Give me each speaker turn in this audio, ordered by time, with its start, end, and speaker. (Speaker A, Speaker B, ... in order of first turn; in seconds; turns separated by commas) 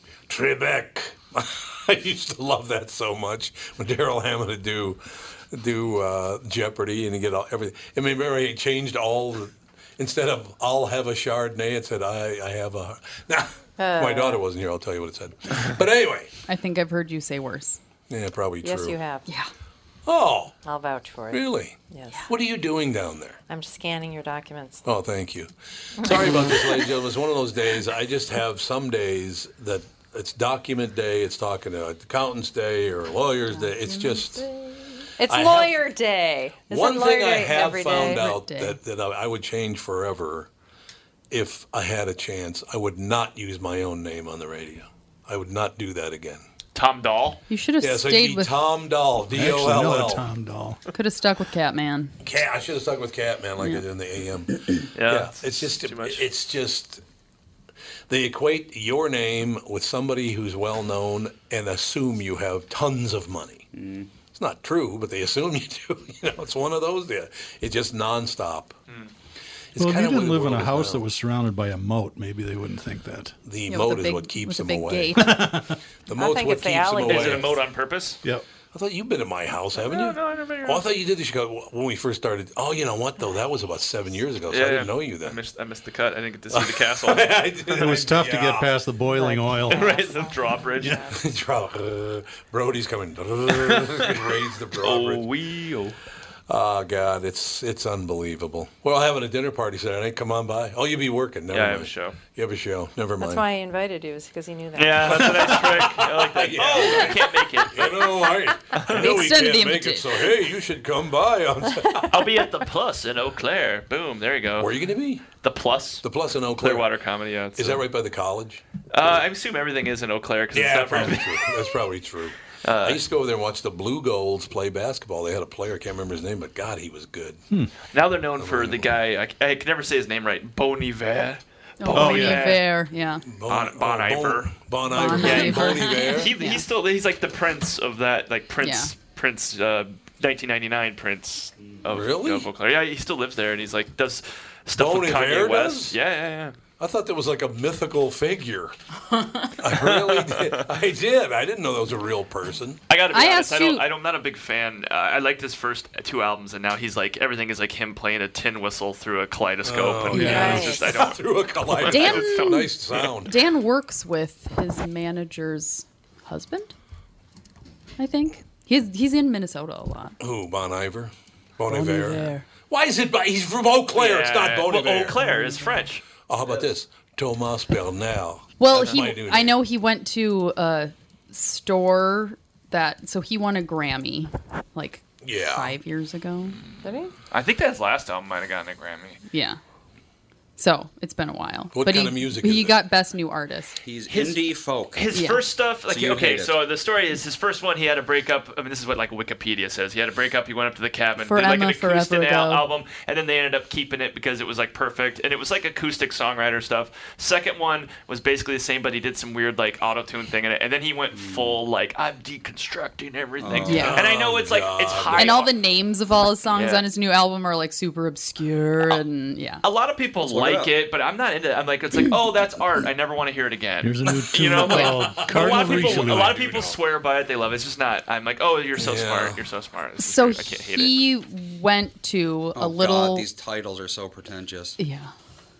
Speaker A: 0.3-16.3, Speaker B: 13.8-14.4, Speaker C: 16.5-17.8, Speaker A: 18.1-19.0, Speaker B: 18.6-19.3, Speaker A: 20.1-20.6, Speaker B: 20.6-22.2, Speaker A: 21.3-23.4, Speaker B: 23.5-24.8, Speaker A: 24.8-34.5, Speaker B: 26.0-26.9, Speaker B: 33.5-38.3, Speaker A: 35.2-35.8, Speaker A: 36.6-40.5, Speaker C: 37.9-38.8, Speaker A: 41.3-46.4, Speaker D: 46.7-47.4, Speaker C: 47.5-48.7, Speaker A: 47.8-50.2, Speaker E: 49.3-50.8, Speaker C: 50.9-52.1, Speaker A: 52.2-57.0, Speaker D: 55.0-56.2, Speaker A: 58.1-68.8, Speaker F: 63.7-64.1, Speaker A: 69.7-71.0, Speaker E: 69.8-73.4, Speaker A: 73.4-75.2, Speaker C: 73.7-75.4, Speaker E: 75.2-75.8, Speaker A: 76.1-77.6, Speaker B: 76.2-77.5, Speaker D: 77.0-78.2, Speaker A: 78.7-85.4, Speaker D: 79.8-80.9, Speaker D: 84.5-88.0, Speaker A: 86.5-88.7, Speaker E: 87.7-89.9, Speaker B: 89.1-91.2, Speaker D: 89.7-91.0, Speaker A: 91.1-95.2, Speaker D: 93.6-94.2, Speaker D: 94.8-96.0, Speaker A: 96.5-103.4, Speaker D: 101.5-102.2, Speaker B: 103.2-105.7, Speaker D: 104.7-108.0, Speaker A: 105.2-112.2, Speaker D: 108.7-109.0, Speaker C: 108.9-110.3, Speaker D: 112.1-117.8, Speaker A: 114.6-115.3, Speaker A: 116.0-116.9, Speaker A: 117.5-118.6, Speaker D: 118.9-121.5, Speaker A: 120.5-127.4, Speaker D: 122.6-123.0, Speaker D: 127.9-132.7, Speaker A: 128.4-128.9, Speaker C: 131.8-133.2, Speaker E: 131.9-132.5, Speaker A: 133.2-136.3, Speaker D: 133.5-146.6, Speaker C: 134.9-136.7, Speaker C: 138.6-138.9, Speaker A: 141.9-142.5, Speaker A: 144.8-146.0, Speaker A: 146.7-148.8, Speaker A: 149.4-152.8, Speaker D: 149.7-150.6, Speaker D: 152.9-163.2, Speaker C: 153.1-153.9, Speaker A: 159.6-163.4, Speaker C: 160.1-160.4, Speaker E: 160.2-160.5, Speaker B: 160.2-161.1, Speaker C: 161.8-166.7, Speaker C: 168.0-170.2, Speaker A: 170.2-175.3, Speaker C: 171.7-172.4, Speaker D: 173.9-176.1, Speaker C: 175.2-175.7, Speaker A: 176.2-179.6, Speaker C: 178.6-186.6, Speaker A: 185.2-185.8, Speaker B: 186.8-187.1, Speaker D: 187.3-189.2, Speaker C: 189.3-189.6, Speaker C: 190.6-193.8, Speaker A: 191.7-192.8, Speaker F: 193.8-195.0, Speaker D: 194.1-215.5, Speaker C: 195.1-195.4, Speaker F: 195.9-196.7, Speaker C: 201.2-202.7, Speaker F: 211.1-211.6, Speaker F: 213.4-214.0, Speaker C: 213.7-214.0, Speaker A: 213.7-215.4, Speaker C: 215.1-219.6, Speaker D: 216.5-216.8, Speaker D: 219.6-231.1, Speaker F: 220.2-220.7, Speaker E: 223.8-226.4, Speaker A: 224.6-226.8, Speaker A: 228.8-229.4, Speaker C: 230.0-233.2, Speaker F: 232.5-234.8, Speaker C: 234.8-235.1